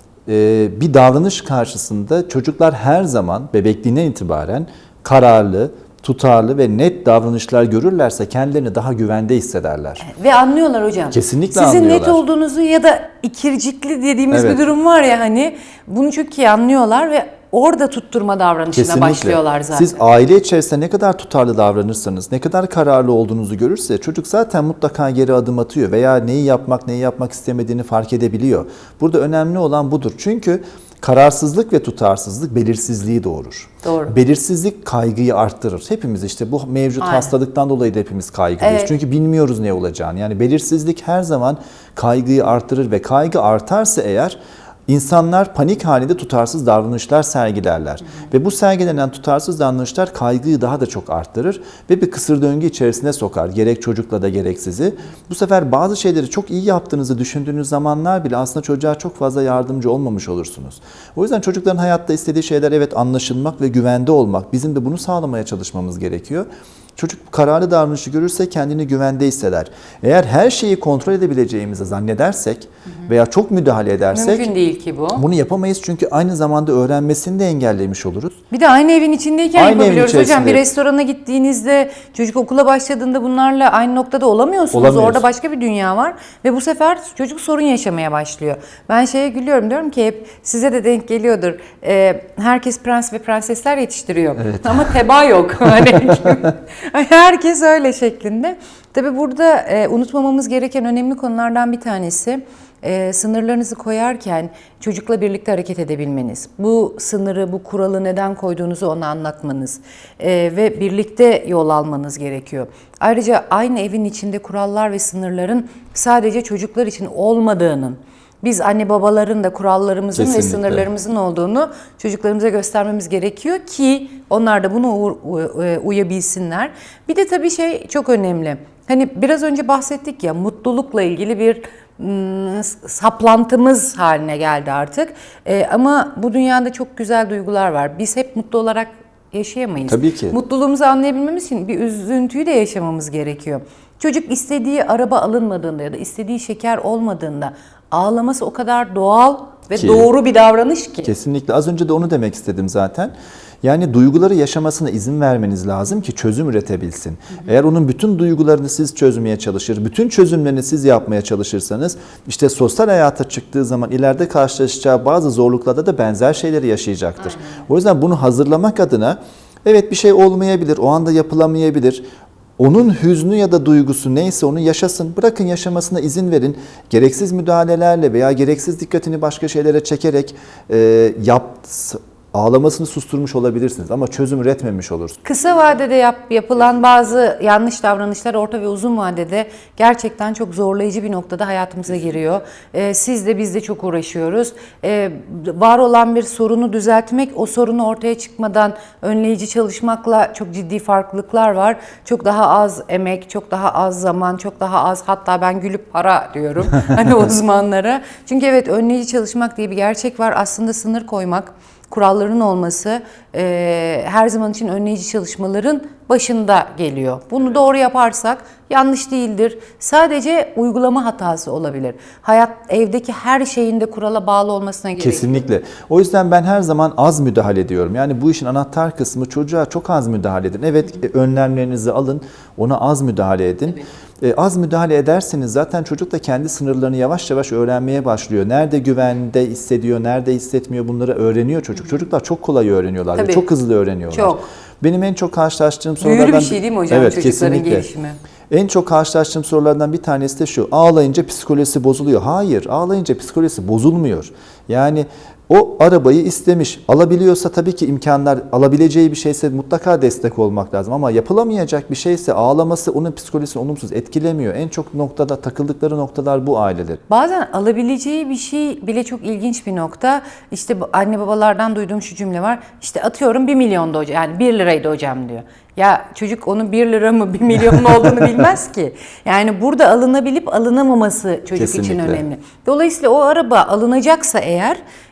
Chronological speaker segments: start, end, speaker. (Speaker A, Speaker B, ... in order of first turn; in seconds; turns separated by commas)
Speaker A: 0.3-10.0, Speaker B: 10.0-20.0, Speaker A: 11.1-12.2, Speaker A: 14.3-14.6, Speaker A: 18.7-74.5, Speaker B: 33.8-34.1, Speaker B: 37.0-37.4, Speaker B: 38.6-38.9, Speaker B: 74.1-75.2, Speaker A: 75.2-78.4, Speaker B: 78.5-151.1, Speaker A: 79.6-80.6, Speaker A: 84.7-85.2, Speaker A: 94.4-94.9, Speaker A: 120.1-120.9, Speaker A: 139.9-140.4, Speaker A: 149.7-150.1, Speaker A: 151.0-172.0, Speaker A: 172.6-185.2, Speaker B: 185.2-225.4, Speaker A: 225.0-247.9, Speaker B: 243.2-243.5, Speaker B: 244.1-244.5, Speaker B: 246.0-248.2, Speaker A: 248.5-267.0, Speaker B: 267.1-284.8, Speaker A: 281.6-282.2